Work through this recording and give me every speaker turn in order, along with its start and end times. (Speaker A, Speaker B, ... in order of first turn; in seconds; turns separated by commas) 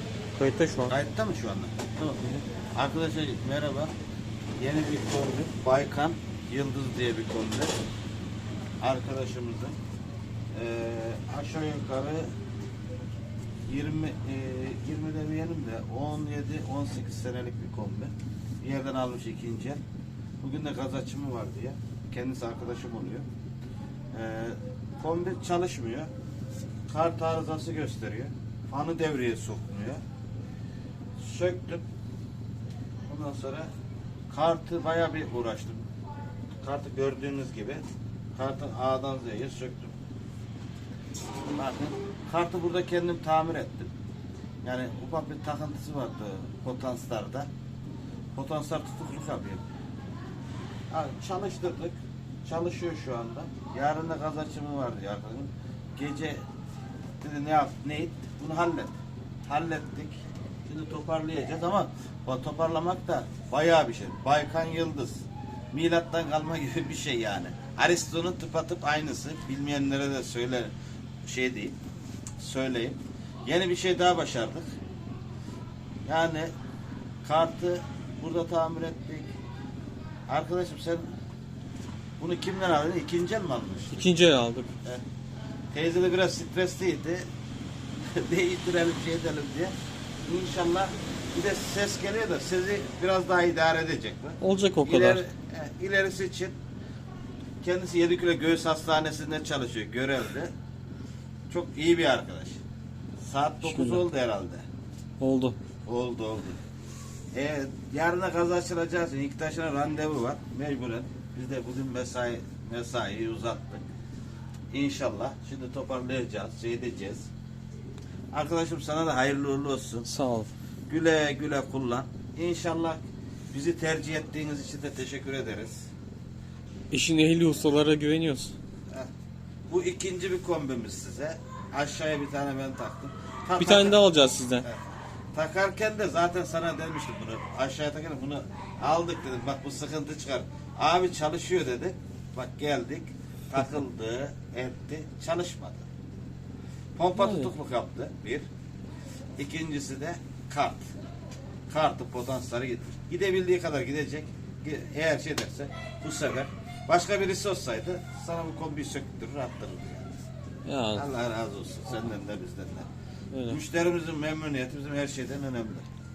Speaker A: 0.3-0.9, Speaker B: 0.9-2.2, Speaker B: 2.8-3.9, Speaker B: 4.6-7.7, Speaker B: 8.8-9.8, Speaker B: 10.5-12.3, Speaker B: 13.7-19.8, Speaker B: 20.4-23.2, Speaker B: 24.1-26.1, Speaker B: 26.9-30.0, Speaker B: 31.2-31.8, Speaker B: 33.1-33.7, Speaker B: 34.3-35.9, Speaker B: 36.6-37.8, Speaker B: 38.4-39.9, Speaker B: 41.5-43.9, Speaker B: 44.6-47.5, Speaker B: 48.3-49.6, Speaker B: 50.9-56.4, Speaker B: 57.2-70.7, Speaker B: 71.2-71.8, Speaker B: 72.4-74.7, Speaker B: 76.0-76.5, Speaker B: 77.2-79.3, Speaker B: 80.3-81.1, Speaker B: 82.2-84.1, Speaker A: 83.9-84.7, Speaker B: 85.7-87.2, Speaker B: 88.1-89.7, Speaker B: 90.2-96.5, Speaker A: 94.4-95.2, Speaker B: 97.6-100.5, Speaker B: 101.5-102.6, Speaker B: 103.2-104.7, Speaker A: 103.6-104.0, Speaker A: 105.2-105.6, Speaker B: 105.9-106.6, Speaker B: 107.3-113.8, Speaker B: 114.7-117.3, Speaker B: 118.3-120.1, Speaker A: 120.1-120.5, Speaker B: 120.9-123.0, Speaker B: 123.5-125.9, Speaker A: 126.9-128.5, Speaker B: 129.7-134.0, Speaker A: 133.6-134.7, Speaker B: 134.6-145.9, Speaker B: 147.0-148.5, Speaker A: 147.2-147.5, Speaker B: 149.4-150.9, Speaker B: 151.7-160.2, Speaker A: 160.7-161.1, Speaker B: 160.9-162.9, Speaker A: 163.3-163.6, Speaker B: 163.5-165.8